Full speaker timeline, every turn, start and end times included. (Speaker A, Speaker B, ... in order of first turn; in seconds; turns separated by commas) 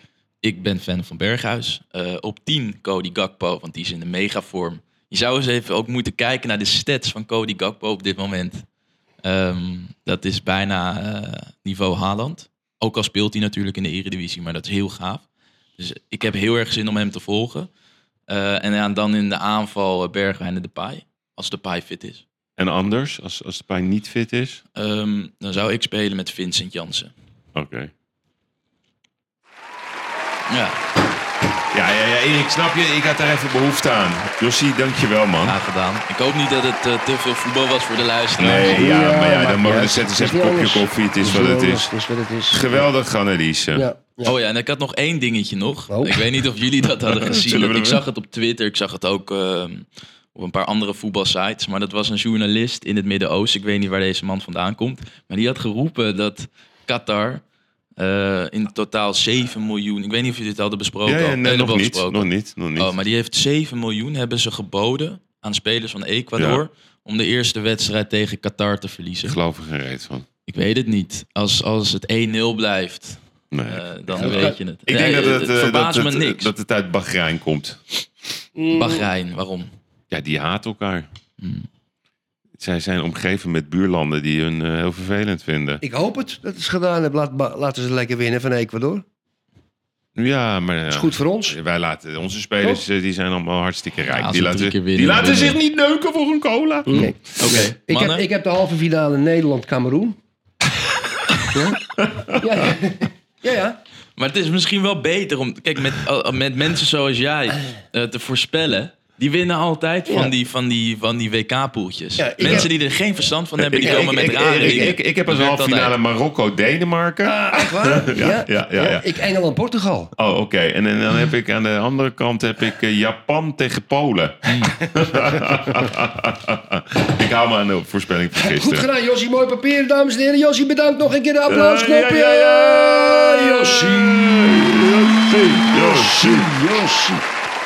Speaker A: 0.4-8.7, Speaker A: 9.2-15.2, Speaker A: 15.8-17.7, Speaker A: 18.3-22.2, Speaker B: 22.6-24.6, Speaker A: 24.8-27.1, Speaker B: 27.6-27.9, Speaker A: 30.5-30.8, Speaker B: 31.7-35.6, Speaker A: 35.4-38.8, Speaker B: 38.4-41.9, Speaker C: 38.6-42.9, Speaker B: 42.5-43.9, Speaker C: 43.7-44.4, Speaker A: 44.2-57.4, Speaker C: 45.9-46.3, Speaker B: 47.0-48.0, Speaker A: 58.0-69.4, Speaker B: 61.0-63.0, Speaker B: 66.4-66.6, Speaker B: 69.2-70.3, Speaker A: 70.5-76.5, Speaker B: 73.5-77.8, Speaker C: 74.2-74.6, Speaker C: 78.6-79.1, Speaker A: 78.7-79.7, Speaker B: 80.1-81.1, Speaker A: 81.4-81.7, Speaker B: 82.6-85.8, Speaker C: 85.8-89.0, Speaker B: 90.2-97.6, Speaker C: 90.9-91.6, Speaker A: 94.1-95.6, Speaker C: 96.9-100.2, Speaker A: 97.0-98.2, Speaker C: 101.5-101.8, Speaker B: 102.0-102.7, Speaker C: 102.4-103.8, Speaker A: 104.2-116.0, Speaker C: 110.1-110.3, Speaker C: 112.2-112.7, Speaker B: 112.4-112.7, Speaker B: 113.6-119.2, Speaker C: 113.8-115.0, Speaker C: 117.2-120.1, Speaker B: 120.2-128.9, Speaker A: 124.5-124.8, Speaker C: 128.3-137.3, Speaker B: 131.5-136.5